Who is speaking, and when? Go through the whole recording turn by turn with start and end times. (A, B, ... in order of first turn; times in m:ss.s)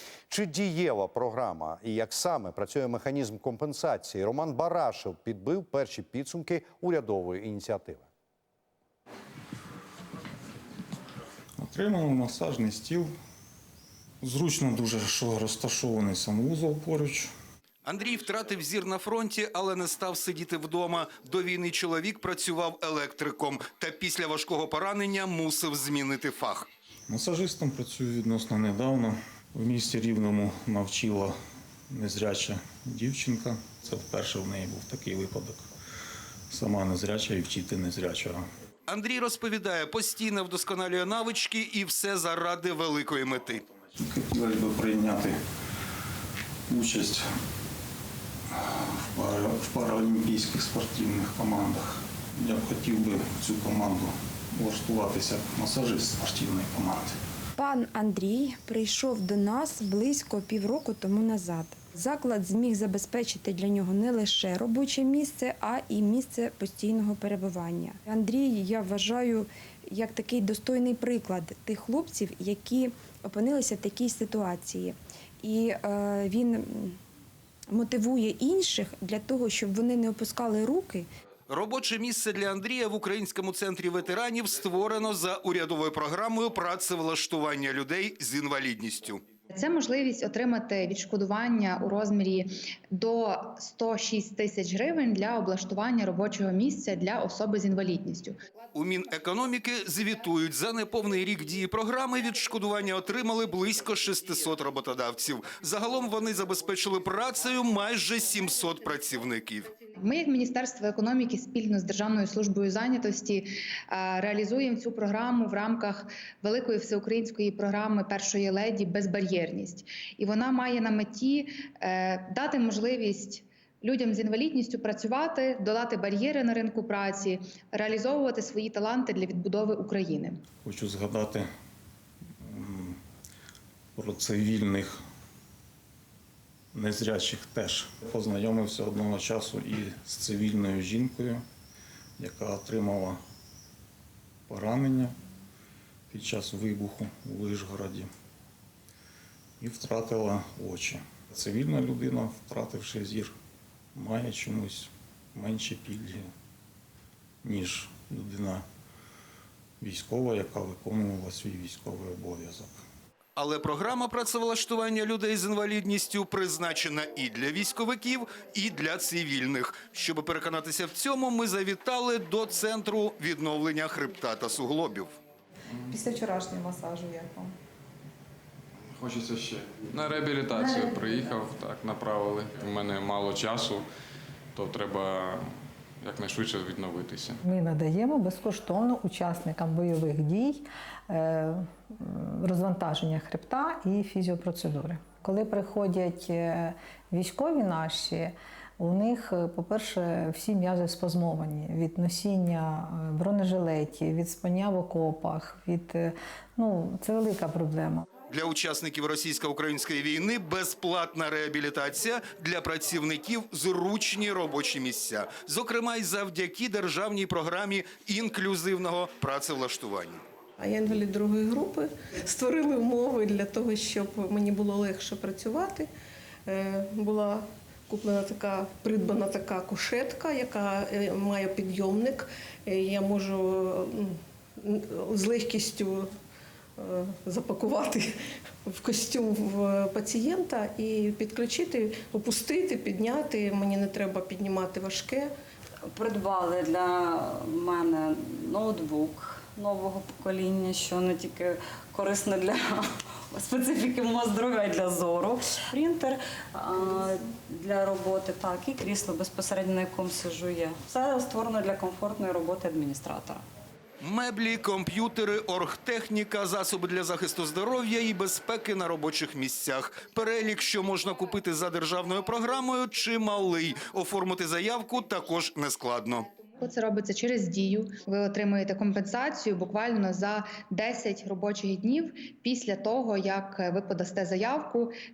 0:00.3-0:08.1 A
0:11.6-0:13.1 B
0:14.2-0:17.3 B
0:17.8-0:26.7 C
0:27.1-0:31.3 B
0:31.9-0:35.7 B
0:36.5-0:38.4 B
0:38.9-0:43.6 C
0:43.9-0:45.4 B
0:46.7-0:47.2 B
0:48.5-0:57.2 B
0:57.6-1:17.0 D
1:17.7-1:21.1 D
1:21.5-1:29.2 C
1:29.5-1:38.3 E
1:38.7-1:49.7 C
1:50.0-2:10.4 E
2:10.6-2:11.5 B
2:12.4-2:13.0 B
2:14.0-2:15.0 B
2:16.7-2:21.4 B
2:22.2-2:23.2 B
2:24.5-2:25.1 B
2:26.1-2:28.1 B
2:29.6-2:33.3 B
2:33.9-2:36.3 B
2:37.4-2:38.6 B
2:39.8-2:42.8 B
2:43.4-2:55.2 C
2:56.1-2:57.2 F
2:59.2-3:03.8 G
3:04.6-3:05.4 G
3:06.1-3:07.4 G
3:07.4-3:28.0 F
3:28.3-3:40.2 C
3:40.6-3:45.9 H
3:46.4-3:56.1 H
3:56.8-3:58.1 H
3:58.6-4:05.3 H
4:05.9-4:23.4 I
4:24.0-4:36.4 C
4:36.6-4:44.9 E